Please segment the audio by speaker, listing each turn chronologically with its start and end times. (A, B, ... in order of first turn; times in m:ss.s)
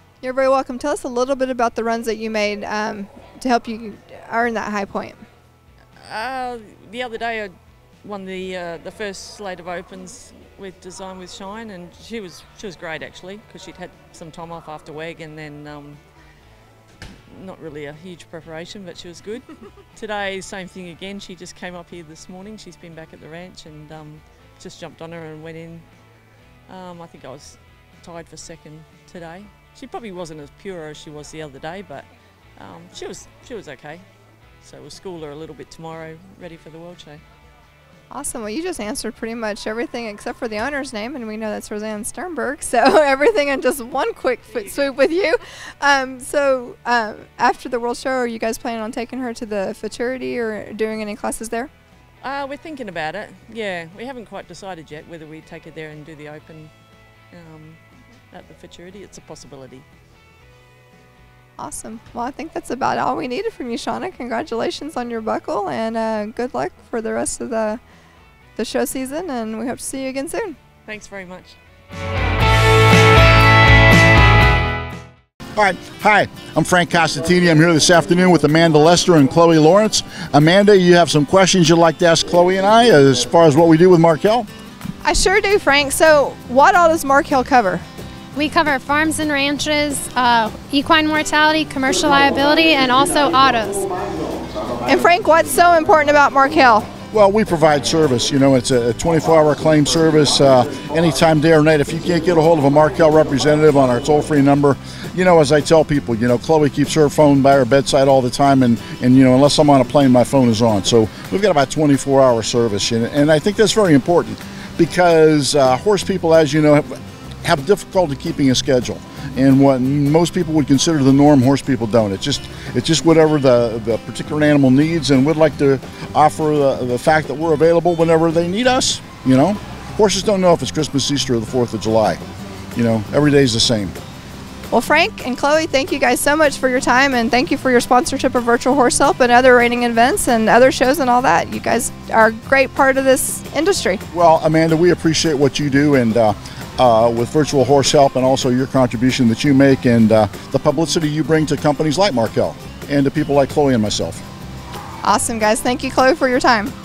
0:00.2-0:05.2 A
0:06.0-0:16.0 B
0:17.3-0:25.8 B
0:26.7-0:34.0 B
0:34.6-0:37.2 B
0:38.1-0:51.7 A
0:52.2-0:56.7 B
0:57.3-0:57.8 B
0:58.3-0:59.8 B
1:01.6-1:07.8 A
1:08.6-1:10.6 A
1:10.8-1:11.6 B
1:15.6-1:24.5 C
1:25.0-1:27.8 A
1:28.3-1:33.9 D
1:34.8-1:36.9 A
1:37.1-2:12.2 C
2:12.7-2:14.0 C
2:14.7-2:24.0 A
2:24.1-2:34.2 C
2:35.0-2:36.7 A